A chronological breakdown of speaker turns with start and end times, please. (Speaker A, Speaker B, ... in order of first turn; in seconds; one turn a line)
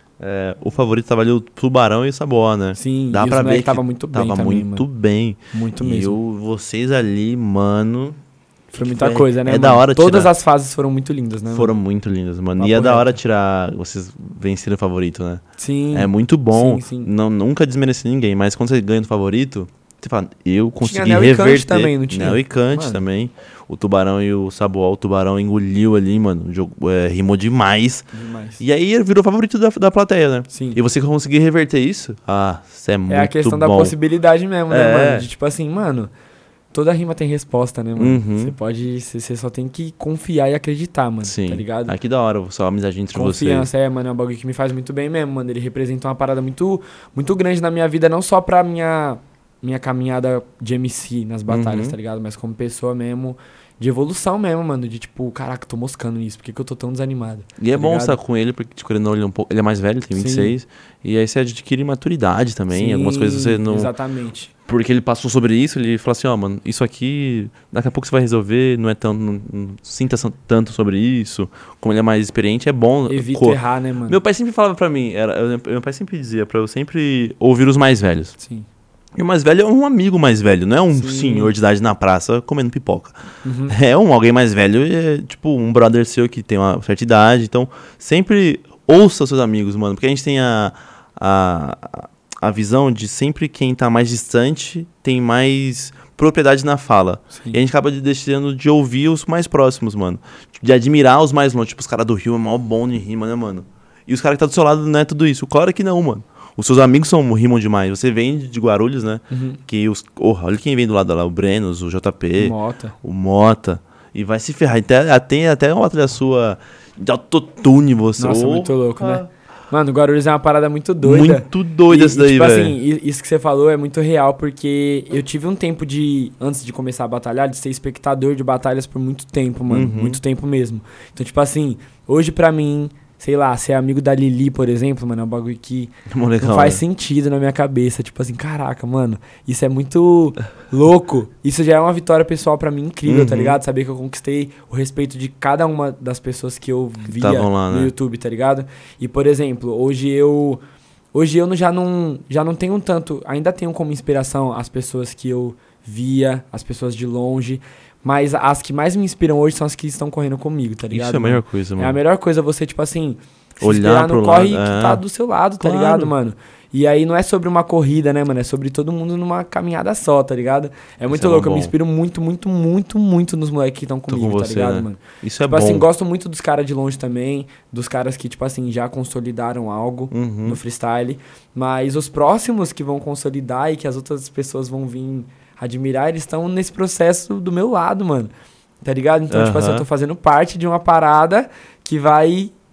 Speaker A: 0.2-8.2
Speaker B: 2.8-4.8
Speaker B: 5.5-6.2
Speaker A: 8.7-10.3
Speaker B: 8.7-11.7
Speaker A: 11.5-34.0
Speaker B: 12.6-13.1
Speaker B: 15.6-17.1
Speaker B: 20.8-23.0
Speaker B: 28.1-28.6
Speaker B: 30.5-30.8
Speaker B: 33.1-36.1
Speaker A: 34.7-35.3
Speaker B: 36.7-42.0
Speaker A: 38.0-38.5
Speaker A: 41.2-43.7
Speaker B: 43.1-58.2
Speaker A: 51.5-52.0
Speaker A: 57.6-63.9
Speaker B: 60.1-60.5
Speaker B: 62.7-64.5
Speaker A: 64.7-78.3
Speaker B: 73.1-74.2
Speaker B: 78.4-78.7
Speaker A: 79.2-83.2
Speaker B: 80.9-81.5
Speaker B: 83.4-83.8
Speaker A: 83.7-119.3
Speaker B: 97.3-97.6
Speaker B: 109.3-109.6
Speaker B: 112.4-113.0
Speaker B: 118.2-150.6
Speaker A: 121.0-122.8
Speaker A: 129.7-130.2
Speaker A: 136.1-136.8
Speaker A: 143.1-143.6
Speaker A: 147.1-147.9
Speaker B: 151.1-188.3
Speaker A: 160.9-162.0
Speaker A: 163.6-165.0
Speaker A: 165.6-166.1
Speaker A: 171.1-171.7
Speaker A: 174.1-175.9
Speaker A: 180.1-180.6
Speaker B: 188.8-192.5
Speaker A: 189.3-189.9